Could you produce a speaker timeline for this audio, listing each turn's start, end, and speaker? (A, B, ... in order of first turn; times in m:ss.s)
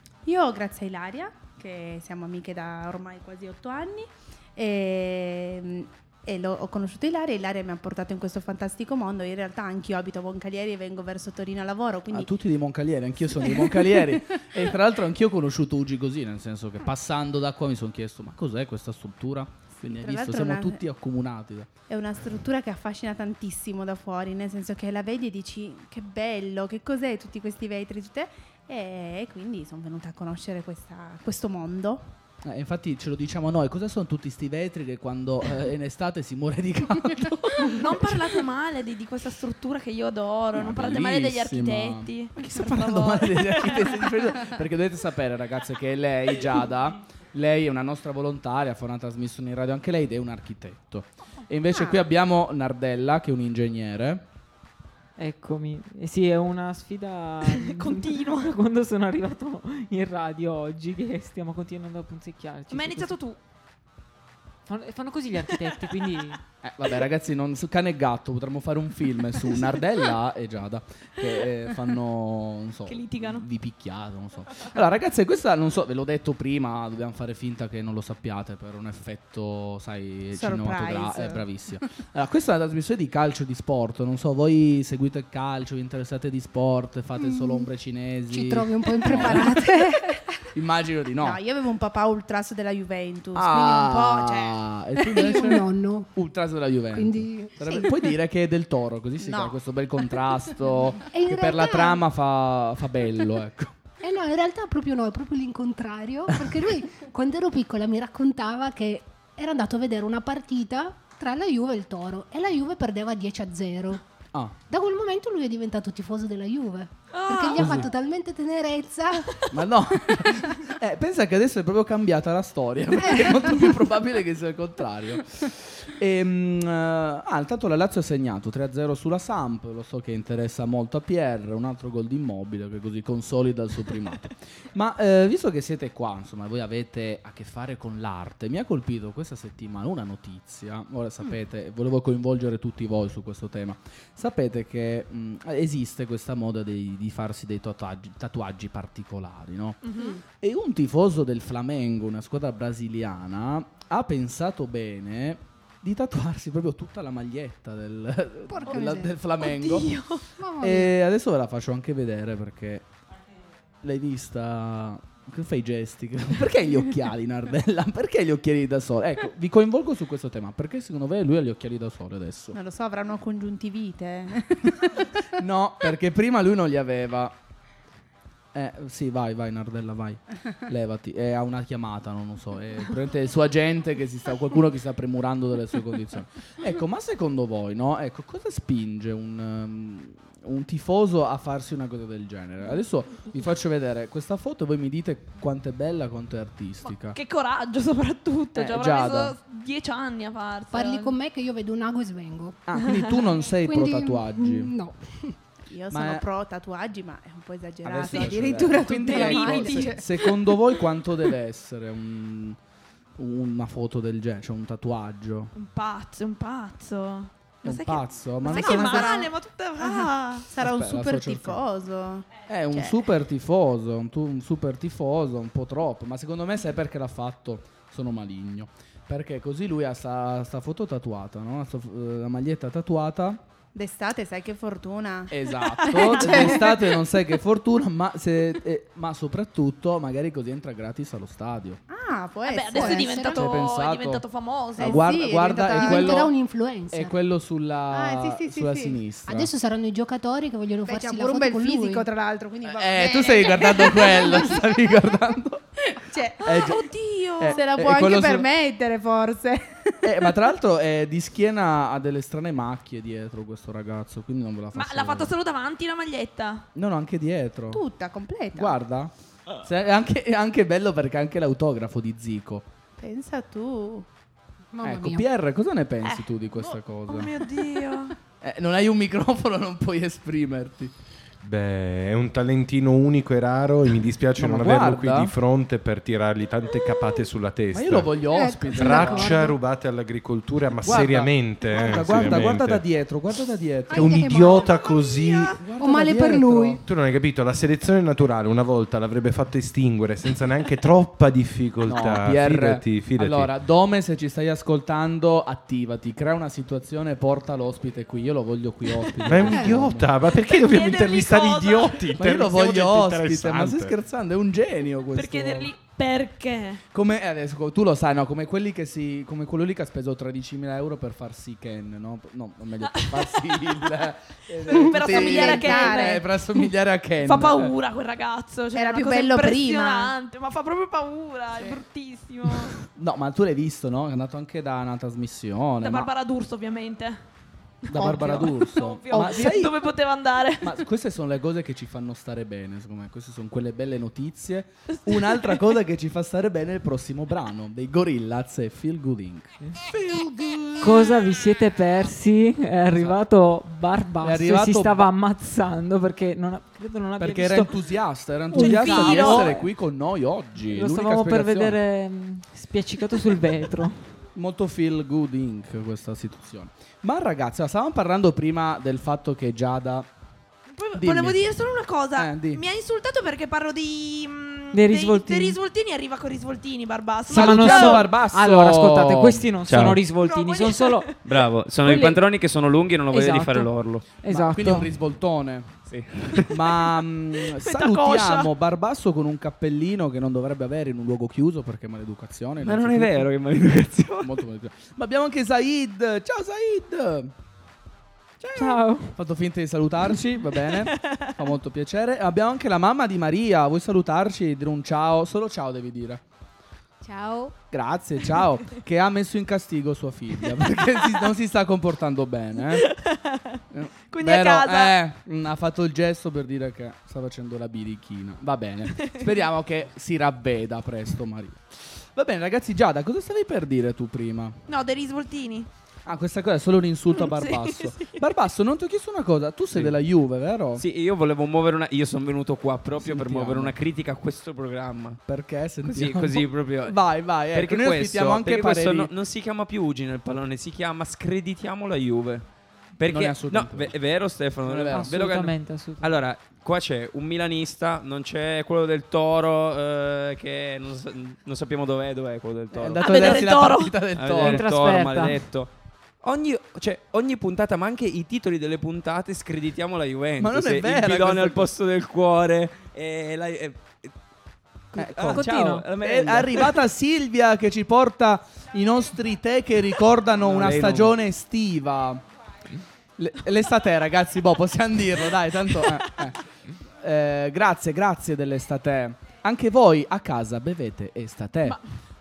0:00.2-0:12.3 A
0:12.1-0:21.7 B
0:13.4-0:14.7 A
0:20.0-0:20.8 A
0:21.9-0:32.1 A
0:32.4-0:38.4 B
0:37.6-0:44.3 C
0:40.6-0:54.2 B
0:55.2-1:03.2 D
0:57.5-0:58.5 C
1:02.7-1:03.4 C
1:04.7-1:06.4 D
1:06.6-1:29.6 B
1:12.9-1:13.5 C
1:20.3-1:21.5 A
1:27.3-1:27.7 E
1:28.3-1:30.2 E
1:29.1-1:29.6 A
1:30.6-1:31.4 B
1:31.2-1:34.6 A
1:33.3-1:43.8 B
1:35.0-1:36.1 E
1:36.9-1:38.2 E
1:39.2-1:39.6 A
1:41.1-1:42.0 E
1:44.0-1:54.0 E
1:54.7-1:59.4 E
1:57.1-1:57.9 C
1:57.6-1:57.9 B
1:59.5-2:40.0 B
2:03.1-2:03.7 E
2:29.8-2:30.2 C
2:38.5-2:39.2 E
2:39.4-2:40.2 C
2:40.4-2:41.0 E
2:40.6-2:42.9 B
2:43.8-2:52.6 B
2:52.5-2:55.2 A
2:55.4-2:57.4 B
2:58.5-3:17.2 B
3:16.9-3:21.2 C
3:18.6-3:19.4 B
3:20.7-3:23.0 E
3:22.7-3:24.7 B
3:22.8-3:23.1 C
3:23.5-3:25.4 E
3:25.7-3:30.7 A
3:25.9-3:26.2 B
3:27.8-3:32.6 B
3:28.0-3:30.3 C
3:29.0-3:29.8 E
3:33.2-3:35.5 B
3:35.6-3:40.5 C
3:37.6-3:39.2 B
3:38.4-3:43.1 A
3:40.6-3:41.6 B
3:42.5-3:53.4 B
3:53.8-3:57.1 A
3:55.3-4:01.8 B
4:01.9-4:03.4 A
4:02.5-4:05.0 C
4:02.7-4:03.5 E
4:03.3-4:04.2 B
4:04.8-4:06.3 A
4:04.8-4:06.3 B
4:05.5-4:07.2 E
4:06.9-4:09.5 B
4:07.9-4:09.0 A
4:09.3-4:12.1 E
4:10.9-4:15.0 A
4:12.7-4:15.6 B
4:15.9-4:16.8 A
4:16.4-4:16.8 B
4:16.4-4:17.6 C
4:17.4-4:18.5 B
4:17.5-4:20.5 A
4:20.0-4:25.3 B
4:24.7-4:26.7 C
4:26.8-4:27.8 B
4:27.7-4:28.8 A
4:28.5-4:29.1 B
4:29.6-4:32.7 B
4:33.0-4:34.1 A
4:34.7-4:35.3 E
4:34.8-4:37.4 B
4:36.0-4:38.2 C
4:38.4-4:40.9 B
4:41.4-4:48.2 F
4:44.4-4:45.3 B
4:47.7-4:49.5 B
4:48.2-4:49.6 E
4:48.7-4:52.8 F
4:50.8-4:54.4 B
4:53.9-4:54.9 E
4:53.9-4:55.6 F
4:55.2-4:55.5 C
4:55.6-4:56.8 B
4:55.7-4:56.8 E
4:56.8-5:03.5 F
5:01.8-5:10.1 B
5:09.2-5:14.0 F
5:09.5-5:09.8 E
5:10.3-5:12.2 C
5:12.2-5:15.7 B
5:15.1-5:16.8 C
5:16.9-5:27.7 B
5:22.9-5:23.9 C
5:24.6-5:26.2 C
5:24.7-5:26.3 A
5:27.2-5:32.8 C
5:28.7-5:30.1 A
5:32.9-5:36.1 B
5:35.8-5:37.2 C
5:37.8-5:40.8 C
5:37.9-5:39.9 B
5:38.0-5:38.5 A
5:39.1-5:39.4 A
5:40.6-5:50.9 B
5:44.9-5:45.7 C
5:50.8-5:57.8 D
5:54.2-5:55.1 B
5:57.2-6:01.8 B
5:58.5-5:59.6 D
5:58.6-5:59.5 C
6:00.6-6:04.0 D
6:04.4-6:10.1 B
6:10.7-6:18.1 C
6:11.0-6:11.4 B
6:12.2-6:12.6 B
6:14.7-6:15.6 D
6:17.3-6:19.5 B
6:17.3-6:21.2 D
6:19.7-6:20.0 G
6:20.2-6:21.2 C
6:21.2-6:24.1 G
6:21.8-6:22.2 D
6:23.1-6:24.9 D
6:24.2-6:25.7 B
6:25.9-6:26.7 G
6:26.5-6:33.3 B
6:27.4-6:28.5 C
6:32.6-6:34.4 G
6:34.2-6:37.3 B
6:38.4-6:46.2 B
6:38.6-6:39.1 D
6:40.8-6:41.4 C
6:47.0-6:47.6 A
6:47.7-6:52.9 B
6:52.6-6:55.0 C
6:53.7-7:04.6 B
6:59.0-6:59.4 C
7:04.7-7:05.7 C
7:06.1-7:10.8 B
7:07.2-7:08.2 C
7:10.8-7:15.2 G
7:13.0-7:13.8 B
7:15.2-7:19.1 B
7:15.8-7:17.0 G
7:17.5-7:22.5 G
7:23.0-7:33.4 G
7:23.1-7:23.9 B
7:24.6-7:25.2 B
7:24.9-7:26.2 D
7:32.7-7:34.7 B
7:33.0-7:34.0 C
7:34.1-7:35.7 G
7:34.4-7:35.4 D
7:36.2-7:44.1 G
7:40.4-7:41.7 B
7:44.9-7:46.8 G
7:45.0-7:52.2 B
7:45.2-7:45.9 D
7:50.4-7:51.1 G
7:53.2-7:56.4 B
7:57.0-8:01.8 B